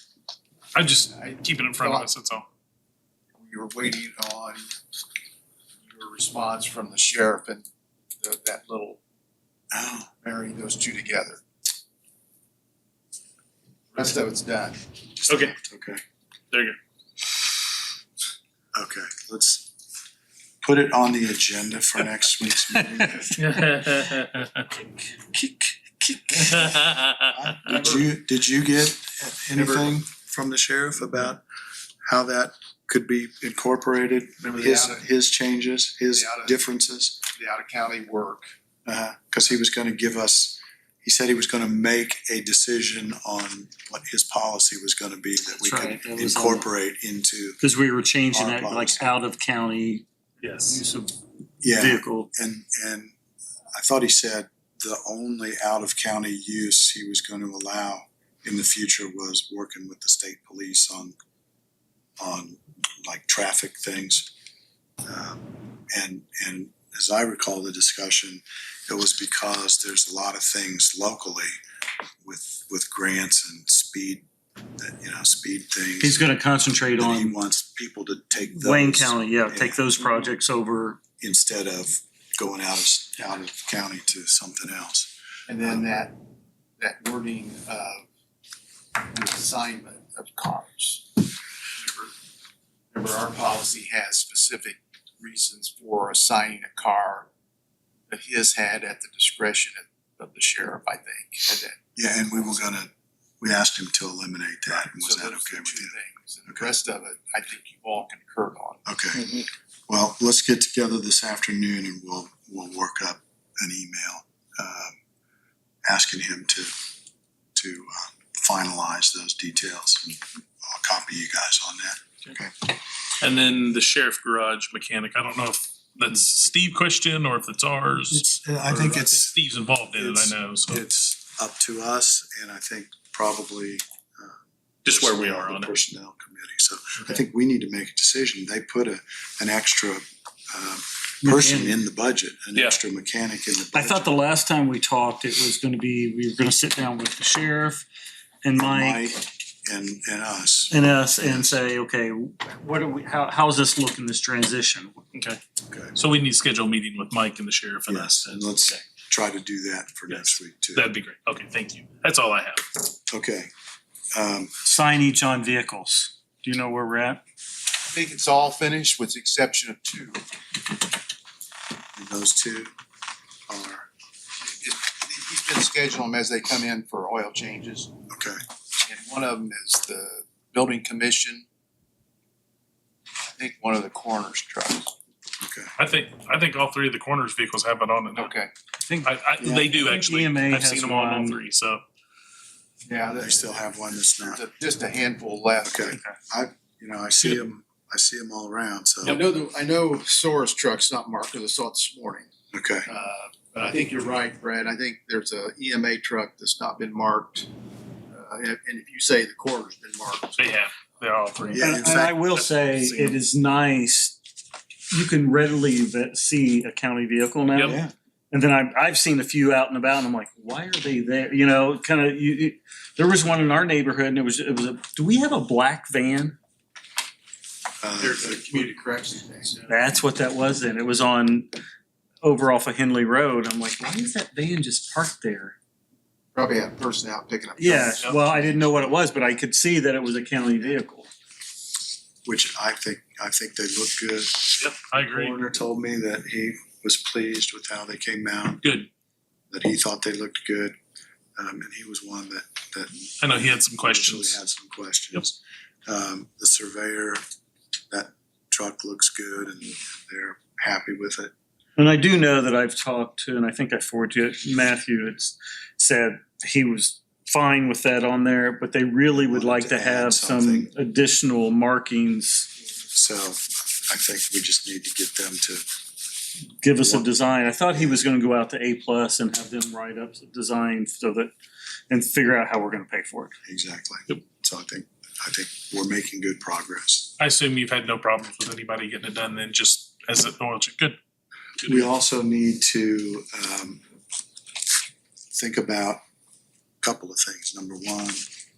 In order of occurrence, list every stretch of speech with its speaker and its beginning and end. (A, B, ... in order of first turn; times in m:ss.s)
0:00.7-0:02.4 A
0:01.1-0:02.1 B
0:03.4-0:04.6 B
0:05.8-0:07.6 B
0:08.2-0:09.0 B
0:09.7-0:10.1 C
0:10.2-0:11.4 B
0:13.9-0:14.8 B
0:15.3-0:16.0 C
0:15.3-0:15.5 A
0:16.5-0:16.8 A
0:18.7-0:19.7 C
0:20.6-0:23.6 C
0:22.8-0:23.1 D
0:23.4-0:24.7 A
0:26.3-0:28.0 A
0:27.3-0:31.4 C
0:32.0-0:37.2 C
0:34.4-0:35.0 B
0:36.2-0:36.6 B
0:37.3-0:38.4 B
0:38.8-0:47.6 C
0:45.6-0:46.6 D
0:47.6-0:50.0 D
0:48.3-0:49.0 C
0:50.4-0:50.8 A
0:50.6-0:51.1 D
0:51.6-0:53.1 C
0:51.6-0:52.3 D
0:53.7-1:01.2 C
1:02.2-1:04.3 C
1:05.0-1:11.6 C
1:12.2-1:14.2 C
1:14.8-1:19.9 C
1:16.0-1:17.3 D
1:18.5-1:21.0 D
1:21.2-1:25.1 C
1:25.5-1:26.2 B
1:26.8-1:28.0 B
1:29.1-1:32.1 B
1:32.9-1:37.3 B
1:38.1-1:41.8 B
1:42.0-1:45.9 C
1:44.7-1:48.8 B
1:48.8-1:54.9 C
1:55.8-1:56.7 C
1:57.5-2:02.7 C
2:03.2-2:10.8 A
2:08.1-2:09.4 C
2:09.9-2:24.1 C
2:14.8-2:15.7 A
2:21.2-2:21.7 D
2:23.7-2:27.8 D
2:28.4-2:29.1 D
2:28.6-2:31.6 C
2:30.7-2:35.0 D
2:35.1-2:35.4 A
2:35.9-2:38.8 A
2:37.9-2:40.9 C
2:40.1-2:42.6 A
2:43.1-2:43.5 C
2:44.1-2:44.5 C
2:44.6-2:47.2 D
2:47.9-2:50.2 B
2:52.0-2:52.7 C
2:53.5-2:53.9 C
2:54.4-2:57.9 B
2:58.1-2:58.4 C
2:58.8-3:01.4 B
3:03.2-3:04.9 B
3:05.4-3:05.7 C
3:05.8-3:08.3 A
3:08.2-3:08.5 B
3:09.0-3:11.8 A
3:09.4-3:09.7 C
3:09.6-3:11.4 D
3:12.8-3:13.6 B
3:13.2-3:14.4 C
3:14.2-3:16.0 B
3:15.6-3:19.2 C
3:19.0-3:22.3 B
3:22.5-3:22.9 C
3:22.9-3:27.5 B
3:28.1-3:30.4 B
3:30.4-3:31.8 A
3:31.5-3:32.2 C
3:31.6-3:34.2 D
3:32.3-3:33.2 A
3:34.9-3:46.4 D
3:47.8-3:48.6 C
3:48.0-3:49.6 B
3:49.7-3:51.5 D
3:52.2-3:55.6 D
3:56.3-3:58.5 B
3:57.6-4:01.1 D
4:02.2-4:08.7 C
4:04.6-4:05.4 A
4:08.6-4:08.9 A
4:09.5-4:10.8 C
4:11.4-4:17.2 C
4:13.2-4:14.4 A
4:17.9-4:21.3 C
4:21.8-4:32.5 D
4:29.2-4:30.7 C
4:32.9-4:35.6 C
4:36.6-4:41.3 D
4:36.8-4:37.1 C
4:37.7-4:38.0 C
4:41.9-4:43.3 D
4:43.4-4:47.1 C
4:47.2-4:51.0 A
4:51.6-4:51.9 A
4:51.6-4:53.8 C
4:55.3-4:56.0 C
4:56.8-4:58.2 C